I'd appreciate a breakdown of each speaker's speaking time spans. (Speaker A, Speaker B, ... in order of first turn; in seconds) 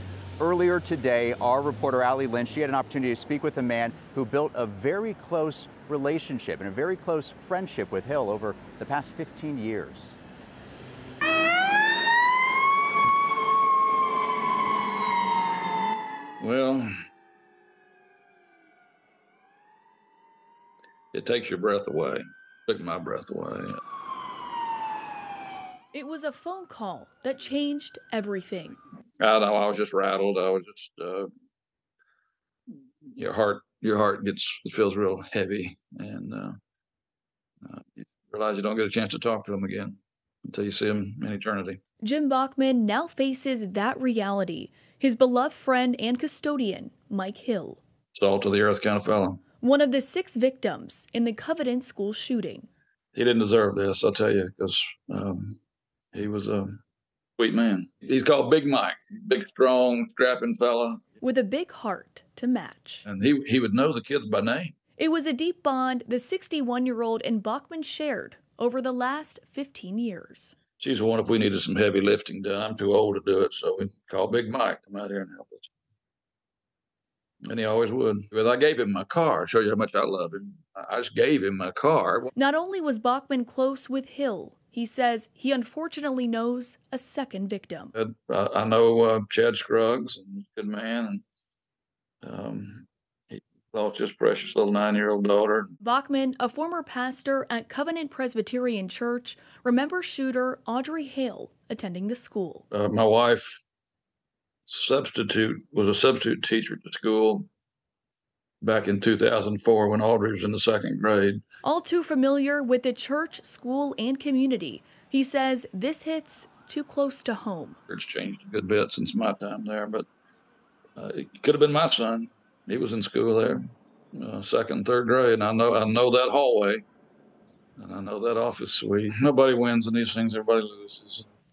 Speaker A: 0.4-10.2
Speaker B: 16.4-16.9, 21.1-23.8, 29.2-31.3, 33.1-36.5, 37.6-41.8, 48.1-49.4, 53.1-55.6, 56.1-56.8, 57.4-61.0, 63.0-64.7, 70.8-75.7, 77.5-82.3, 88.0-91.2, 92.2-95.7, 102.7-103.6, 104.7-107.5, 108.6-111.4, 117.9-120.1, 121.0-123.6, 124.1-126.8, 127.8-131.2
Speaker C: 25.9-28.8, 42.0-47.8, 49.6-52.7, 61.2-63.0, 65.0-70.5, 82.4-87.9, 95.8-102.7, 111.6-117.8